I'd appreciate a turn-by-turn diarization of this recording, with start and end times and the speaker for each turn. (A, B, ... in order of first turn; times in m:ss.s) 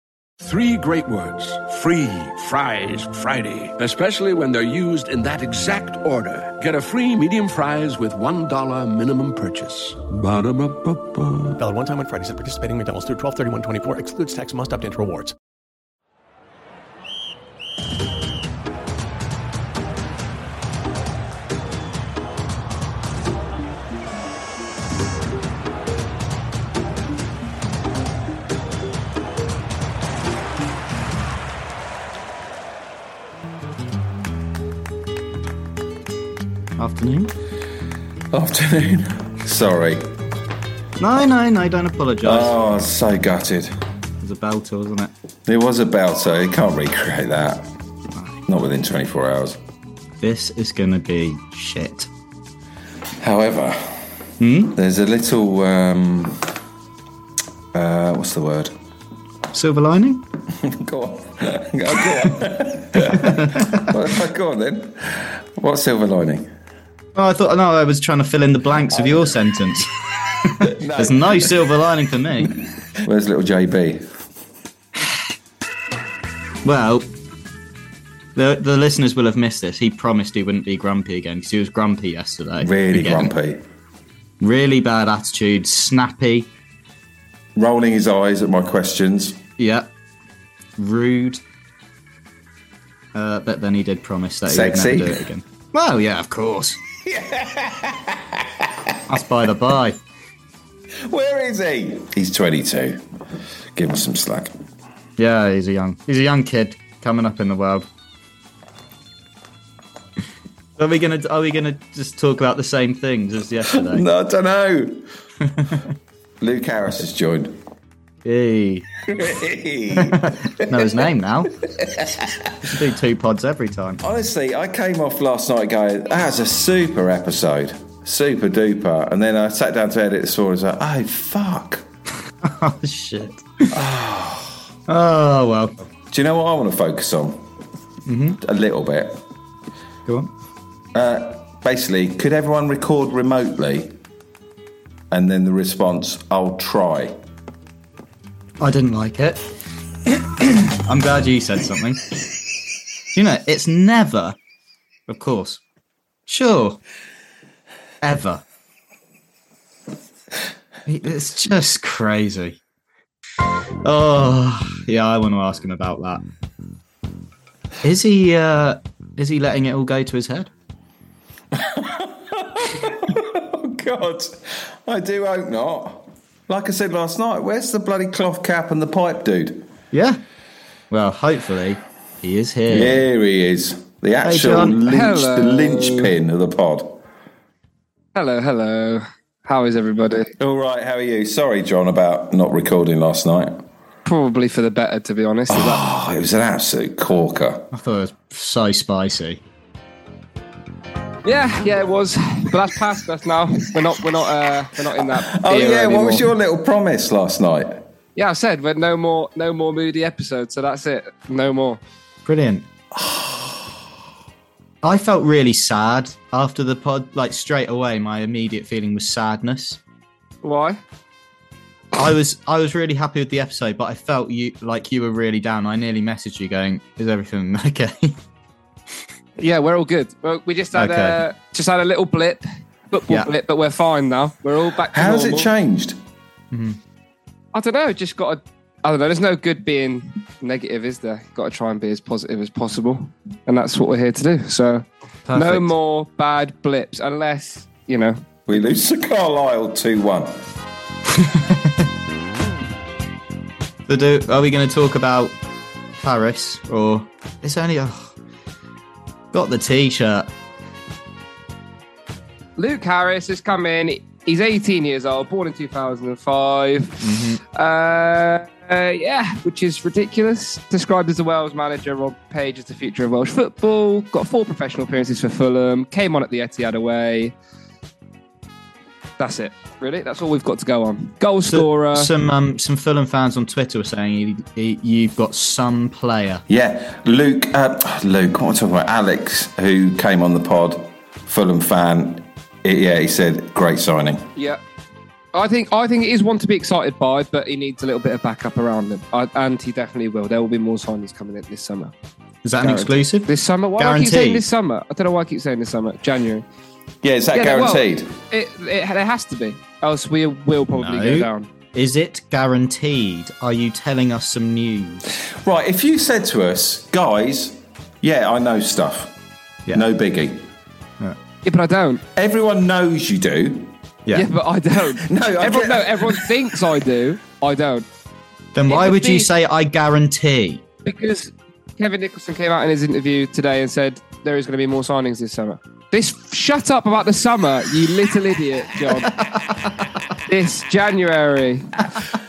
0:00.4-0:11.6 A
0:11.6-0:15.3 B
0:36.8-0:37.3 C
0:38.3-0:40.1 D
0:41.0-0:42.6 C
0:42.2-0:43.7 D
0:44.2-0:45.1 C
0:45.5-0:47.7 D
0:48.5-0:49.6 D
0:50.2-0:52.1 C
0:53.2-0:54.0 D
0:54.4-0:54.8 C
0:54.7-0:56.5 D
0:57.7-0:58.7 D
0:59.5-1:00.2 C
1:00.6-1:06.5 D
1:03.1-1:03.9 C
1:07.2-1:09.9 C
1:08.9-1:09.4 D
1:10.4-1:12.6 C
1:10.6-1:11.8 D
1:13.0-1:14.0 D
1:16.6-1:17.1 C
1:18.4-1:23.3 C
1:22.6-1:23.6 D
1:24.4-1:26.5 C
1:27.6-1:29.4 D
1:29.6-1:29.9 C
1:30.8-1:31.4 C
1:33.1-1:36.8 C
1:34.5-1:35.2 D
1:37.0-1:38.9 D
1:39.1-1:40.0 C
1:41.1-1:43.0 D
1:43.8-1:44.5 D
1:45.2-1:47.9 C
1:50.8-1:54.0 C
1:53.7-1:55.1 D
1:55.4-1:55.9 C
1:56.4-1:57.6 D
1:58.2-1:58.9 C
1:59.0-2:01.0 D
1:59.9-2:01.5 C
2:01.8-2:02.5 D
2:02.6-2:04.0 C
2:04.0-2:11.8 D
2:12.4-2:13.8 C
2:13.7-2:14.7 D
2:14.9-2:15.9 C
2:16.1-2:17.4 D
2:18.1-2:18.4 C
2:18.4-2:19.2 D
2:21.0-2:23.9 D
2:25.1-2:27.2 D
2:28.6-2:29.5 C
2:30.1-2:32.0 C
2:33.1-2:34.4 C
2:35.1-2:35.6 C
2:36.3-2:36.8 C
2:38.0-2:38.4 C
2:40.9-2:42.6 C
2:43.8-2:46.2 C
2:47.8-2:50.5 C
2:51.5-2:59.7 D
2:59.9-3:00.2 C
3:00.9-3:03.0 C
3:02.7-3:07.0 D
3:04.2-3:04.8 C
3:04.9-3:06.1 E
3:08.2-3:10.3 E
3:10.4-3:13.6 D
3:14.0-3:15.8 E
3:15.5-3:17.7 D
3:17.7-3:19.4 C
3:21.2-3:26.3 E
3:25.2-3:27.8 D
3:28.2-3:31.8 E
3:32.3-3:32.7 C
3:33.0-3:33.5 D
3:34.8-3:39.8 C
3:40.4-3:40.8 E
3:41.9-3:48.2 C
3:49.4-3:55.5 E
3:50.8-3:51.2 C
3:54.9-3:56.0 D
3:56.5-3:56.8 C
3:57.5-4:08.2 E
4:05.3-4:05.7 C
4:08.5-4:10.4 D
4:11.1-4:11.9 C
4:13.9-4:15.4 C
4:16.0-4:18.1 C
4:19.3-4:20.3 C
4:22.6-4:37.3 E
4:27.0-4:27.4 C
4:39.2-4:42.1 E
4:41.5-4:46.4 C
4:46.5-4:54.3 D
4:55.3-5:01.9 E
5:02.4-5:04.5 C
5:02.6-5:06.4 E
5:07.0-5:08.2 D
5:07.3-5:11.5 E
5:10.7-5:15.1 C
5:15.4-5:19.1 D
5:19.7-5:20.5 D
5:21.4-5:22.0 E
5:22.2-5:23.8 D
5:24.1-5:27.9 E
5:25.0-5:26.3 D
5:28.6-5:30.6 C
5:28.7-5:29.3 E
5:30.8-5:39.2 E
5:40.2-5:41.8 E